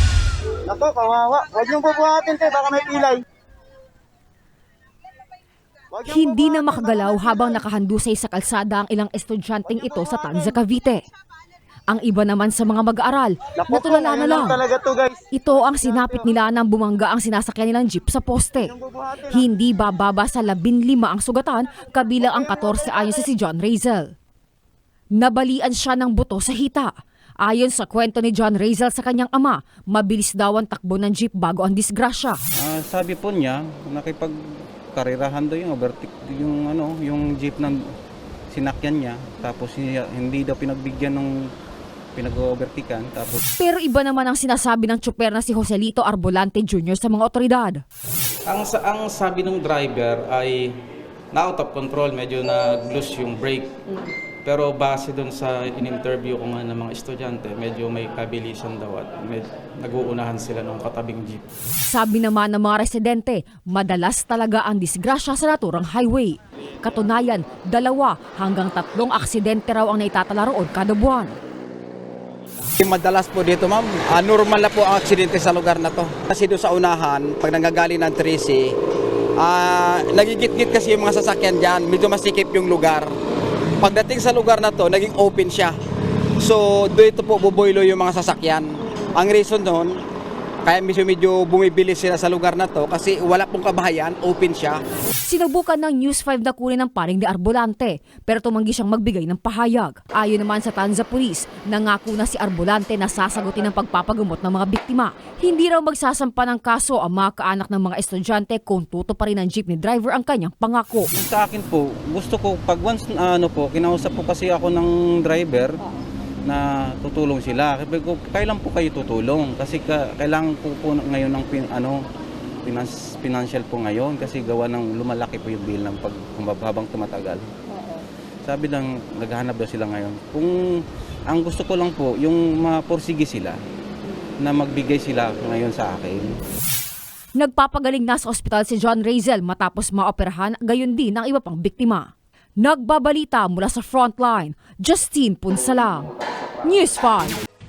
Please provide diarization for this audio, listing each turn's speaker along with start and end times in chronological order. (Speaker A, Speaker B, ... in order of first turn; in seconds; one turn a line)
Speaker A: 0.7-3.2
Speaker A: 5.9-7.6
Speaker B: 6.1-11.0
Speaker A: 9.7-10.5
Speaker B: 11.9-14.6
Speaker A: 13.5-15.3
Speaker B: 15.3-18.7
Speaker A: 18.6-19.4
Speaker B: 19.3-24.1
Speaker A: 22.4-23.2
Speaker B: 25.1-32.4
Speaker C: 32.6-34.4
Speaker C: 34.9-37.8
Speaker C: 38.5-41.3
Speaker C: 42.1-43.4
Speaker B: 43.6-47.8
Speaker D: 48.5-50.7
Speaker D: 51.3-53.8
Speaker D: 54.4-61.5
Speaker B: 61.9-71.4
Speaker E: 72.8-78.7
Speaker E: 79.4-83.1
Speaker E: 83.8-85.8
Speaker E: 86.4-89.9
Speaker E: 90.6-94.8
Speaker B: 95.2-111.1
Speaker C: 111.1-115.8
Speaker C: 116.5-122.0
Speaker C: 122.6-127.5
Speaker C: 128.4-130.5
Speaker C: 131.3-133.6
Speaker C: 134.4-136.3
Speaker B: 137.4-147.4